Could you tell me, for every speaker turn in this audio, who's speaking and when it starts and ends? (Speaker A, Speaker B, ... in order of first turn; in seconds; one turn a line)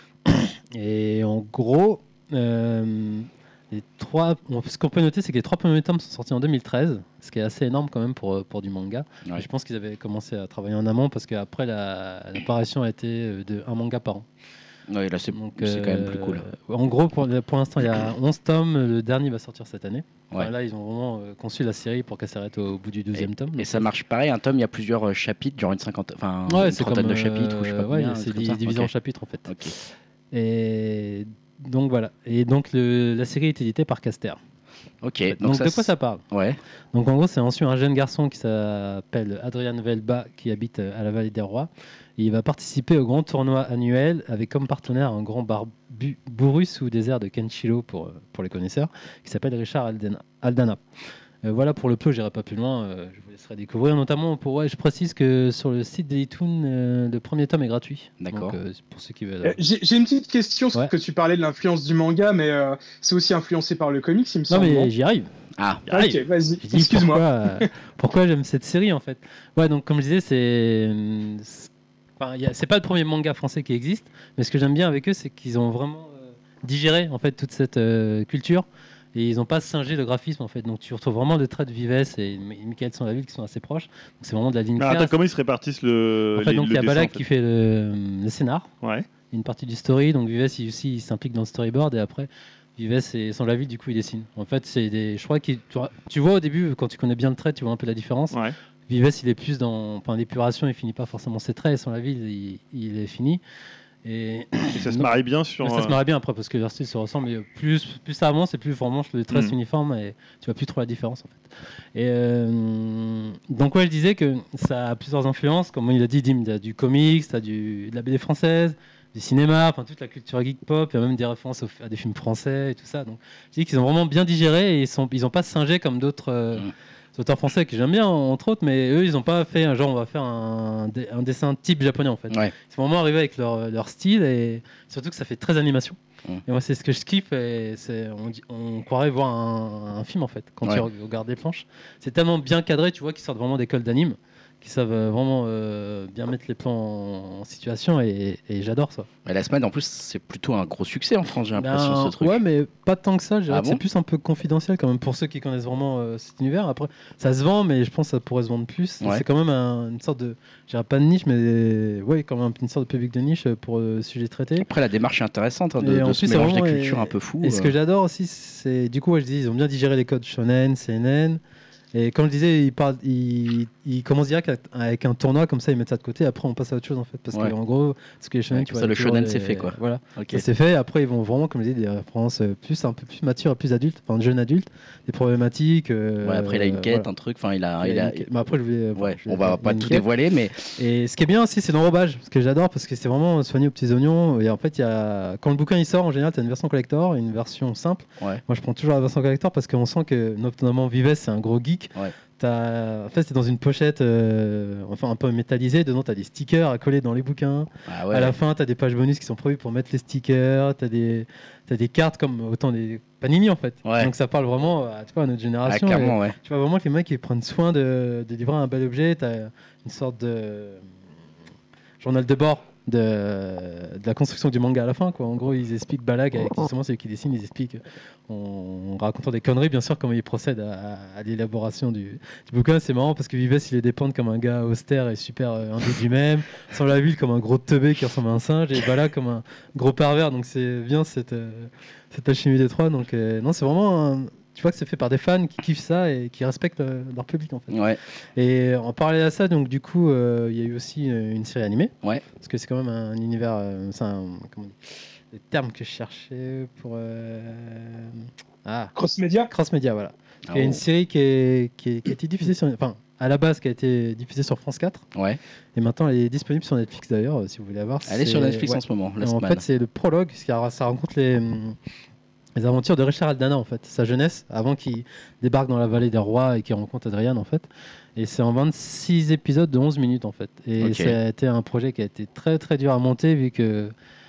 Speaker A: 0.3-14.3
Speaker B: 14.9-16.4
Speaker A: 15.3-23.9
Speaker B: 23.1-28.9
Speaker A: 26.5-29.5
Speaker B: 29.5-29.7
Speaker A: 30.3-34.4
Speaker B: 35.0-36.6
Speaker A: 35.3-36.2
Speaker A: 36.9-50.8
Speaker A: 51.4-59.6
Speaker B: 58.2-58.5
Speaker C: 59.4-64.9
Speaker A: 64.5-65.3
Speaker B: 65.6-65.8
Speaker C: 65.9-67.7
Speaker A: 65.9-85.1
Speaker D: 84.8-87.2
Speaker A: 86.3-88.7
Speaker D: 88.8-89.1
Speaker A: 89.3-98.4
Speaker A: 98.9-103.4
Speaker A: 104.0-149.1
Speaker D: 104.7-105.9
Speaker B: 149.2-152.4
Speaker A: 151.6-164.7
Speaker B: 153.5-153.8
Speaker B: 164.6-167.7
Speaker A: 165.8-171.4
Speaker A: 171.9-187.1
Speaker B: 178.5-180.4
Speaker B: 186.2-188.3
Speaker A: 187.8-190.1
Speaker B: 188.9-190.7
Speaker A: 190.8-220.8
Speaker B: 207.9-208.3
Speaker B: 213.8-214.1
Speaker B: 215.7-216.3
Speaker A: 222.0-247.8
Speaker B: 247.7-248.0
Speaker A: 248.3-258.9
Speaker C: 258.9-259.5
Speaker A: 259.5-265.0
Speaker B: 260.5-260.8
Speaker A: 265.7-271.8
Speaker B: 268.1-269.6
Speaker A: 272.6-283.9
Speaker B: 280.8-281.2